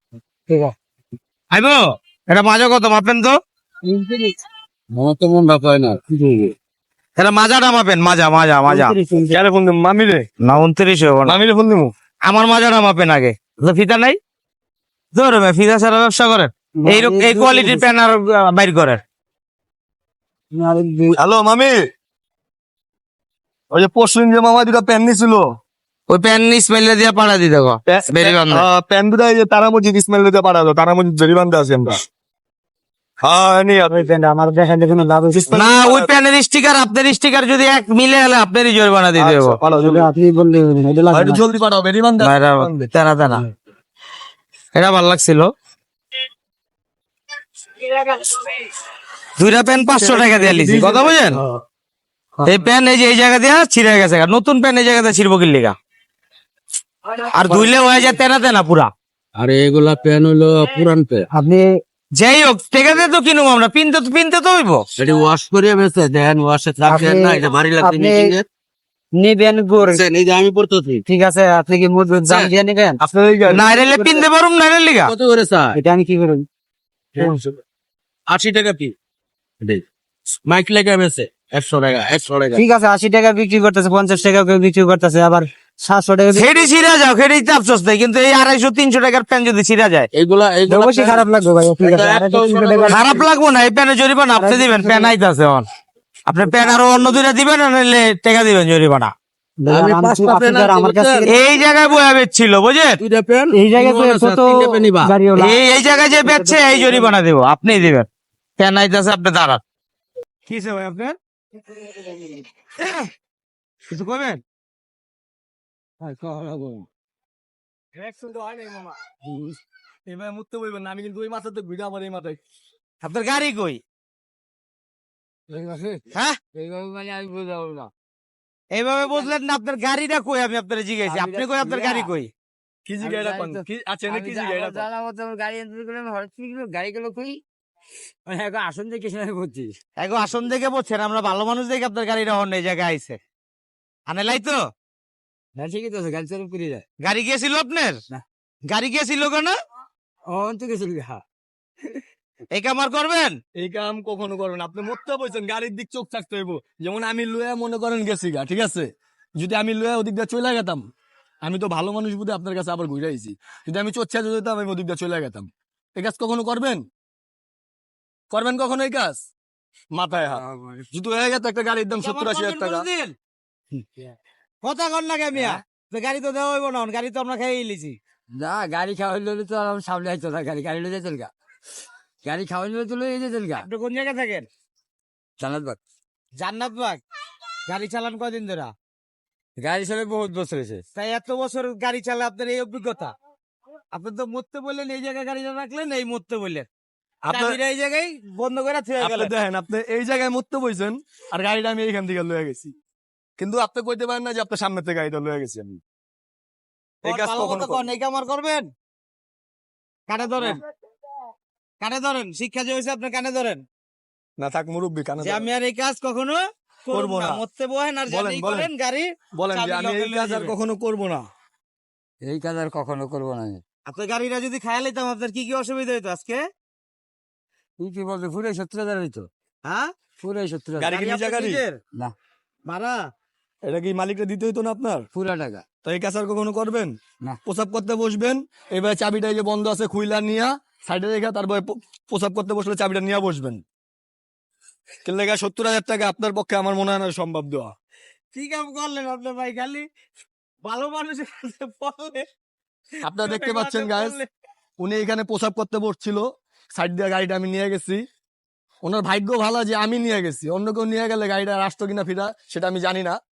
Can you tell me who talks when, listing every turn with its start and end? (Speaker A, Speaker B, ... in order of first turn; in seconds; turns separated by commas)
Speaker A: 0.5-0.7, Speaker B: 1.5-3.4, Speaker A: 3.8-4.3, Speaker C: 4.9-6.0, Speaker B: 7.2-8.9, Speaker A: 8.7-9.4, Speaker D: 9.3-10.3, Speaker B: 10.4-11.4, Speaker D: 11.2-11.9, Speaker B: 12.3-14.2, Speaker B: 15.1-19.0, Speaker A: 16.8-17.8, Speaker A: 20.6-21.2, Speaker D: 21.1-21.8, Speaker D: 23.7-25.4, Speaker B: 26.1-28.6, Speaker D: 27.9-32.0, Speaker D: 33.2-34.1, Speaker A: 33.9-35.6, Speaker D: 35.3-36.1, Speaker B: 35.5-39.6, Speaker D: 39.1-40.1, Speaker A: 39.8-41.4, Speaker D: 41.1-42.9, Speaker B: 42.2-43.4, Speaker B: 44.7-45.5, Speaker B: 48.0-48.4, Speaker B: 49.4-51.4, Speaker D: 50.0-51.4, Speaker B: 52.5-55.8, Speaker B: 57.3-58.9, Speaker C: 59.3-61.3, Speaker A: 61.3-61.6, Speaker B: 62.2-64.8, Speaker C: 65.0-68.4, Speaker A: 66.8-68.3, Speaker A: 69.2-70.0, Speaker C: 69.8-71.0, Speaker A: 71.1-73.0, Speaker D: 73.0-73.6, Speaker B: 73.5-75.1, Speaker A: 73.8-74.2, Speaker C: 75.0-75.8, Speaker A: 75.8-76.4, Speaker C: 77.2-77.6, Speaker C: 78.3-78.9, Speaker C: 80.3-82.6, Speaker A: 82.5-86.5, Speaker B: 86.3-90.1, Speaker C: 90.1-91.2, Speaker A: 90.7-93.0, Speaker C: 91.8-93.2, Speaker B: 92.9-95.7, Speaker A: 94.3-95.1, Speaker B: 96.3-99.1, Speaker A: 99.6-101.4, Speaker C: 99.7-101.3, Speaker B: 101.3-103.0, Speaker C: 103.0-105.1, Speaker A: 103.5-105.6, Speaker B: 105.4-108.1, Speaker A: 106.2-107.1, Speaker B: 108.6-109.6, Speaker B: 110.5-111.2, Speaker B: 112.8-113.1, Speaker B: 113.9-114.4, Speaker E: 116.0-116.8, Speaker D: 118.0-118.9, Speaker E: 119.2-119.5, Speaker D: 120.0-122.4, Speaker B: 123.0-123.8, Speaker E: 125.5-127.9, Speaker B: 128.7-132.3, Speaker E: 131.0-132.1, Speaker D: 132.8-134.9, Speaker E: 133.0-137.4, Speaker E: 138.3-139.8, Speaker B: 140.0-143.2, Speaker B: 144.1-144.6, Speaker E: 145.6-146.8, Speaker B: 147.0-147.9, Speaker B: 148.7-149.5, Speaker E: 150.3-151.2, Speaker B: 152.5-153.4, Speaker D: 153.6-160.8, Speaker D: 161.4-166.8, Speaker D: 168.3-169.2, Speaker D: 169.9-172.9, Speaker E: 170.3-170.9, Speaker B: 172.0-173.1, Speaker B: 174.6-178.0, Speaker E: 175.3-175.6, Speaker E: 178.3-181.3, Speaker E: 182.2-183.7, Speaker B: 183.6-184.5, Speaker E: 185.4-185.8, Speaker B: 186.4-187.0, Speaker B: 187.7-188.7, Speaker E: 189.6-190.8, Speaker B: 190.9-193.1, Speaker B: 193.9-196.7, Speaker D: 197.2-197.6, Speaker B: 197.3-199.3, Speaker D: 199.0-202.7, Speaker D: 203.4-205.8, Speaker D: 207.0-207.9, Speaker B: 207.0-208.7, Speaker B: 210.1-210.6, Speaker B: 211.8-213.6, Speaker D: 214.4-215.5, Speaker B: 215.2-220.5, Speaker D: 216.9-217.4, Speaker D: 218.1-218.7, Speaker D: 219.3-221.2, Speaker E: 222.2-223.6, Speaker B: 223.8-226.4, Speaker E: 227.8-229.3, Speaker B: 229.6-229.9, Speaker E: 230.2-230.9, Speaker D: 230.8-231.6, Speaker B: 230.8-231.8, Speaker B: 232.7-233.1, Speaker D: 233.6-235.1, Speaker E: 235.1-235.6, Speaker D: 235.8-243.6, Speaker D: 245.0-247.7, Speaker B: 248.3-249.9, Speaker B: 250.6-252.2, Speaker D: 253.0-254.2, Speaker B: 253.1-254.3, Speaker D: 254.8-258.0, Speaker D: 258.8-263.2